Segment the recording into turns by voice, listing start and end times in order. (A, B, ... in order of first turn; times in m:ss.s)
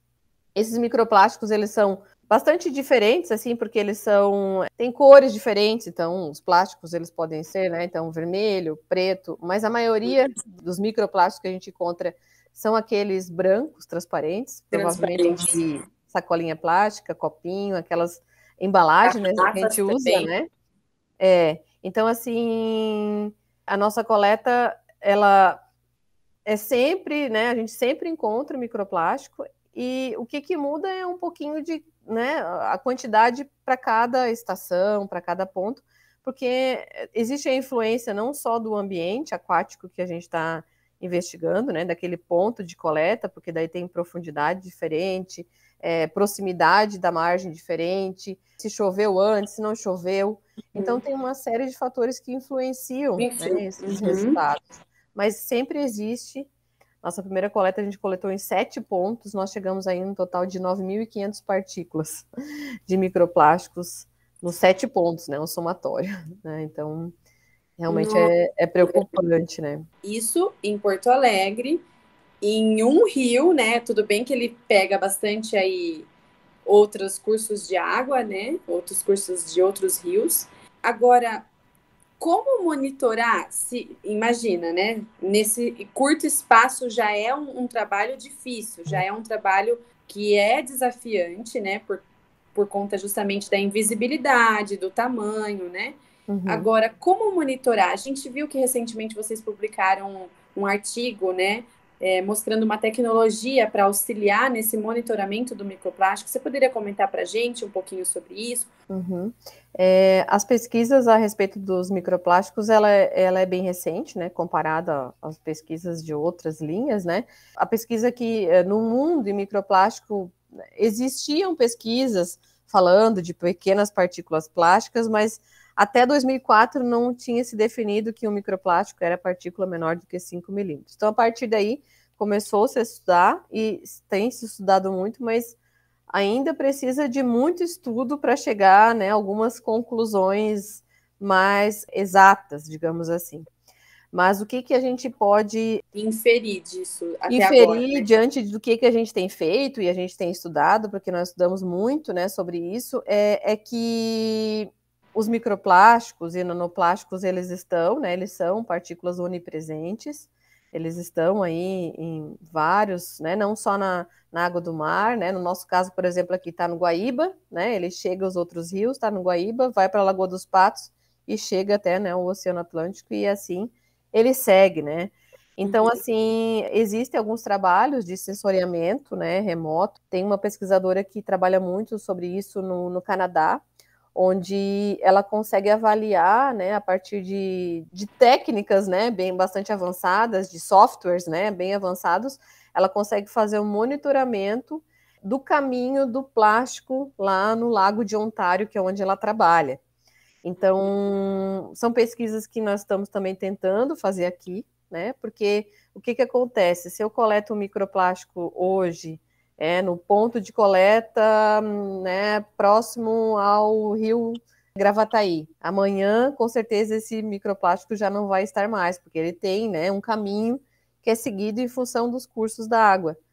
0:00.5-0:20.5 A
0:14.7-0:15.6 B
0:19.0-0:20.3 B
0:21.2-0:25.6 A
0:26.4-0:54.6 A
0:50.7-0:51.0 B
0:53.2-0:54.4 B
0:55.1-0:56.5 A
0:57.0-1:02.3 A
1:02.9-1:07.1 A
1:07.8-1:09.8 A
1:07.9-1:08.3 B
1:10.0-1:11.8 B
1:12.4-1:16.1 B
1:16.6-1:21.5 B
1:22.2-1:48.7 B
1:36.3-1:36.7 A
1:48.9-2:15.6 A
2:16.1-2:23.5 A
2:24.1-2:25.8 A
2:25.9-2:28.1 B
2:27.3-3:03.6 A
2:55.7-2:56.0 B
3:04.1-3:19.8 A
3:20.4-3:43.2 A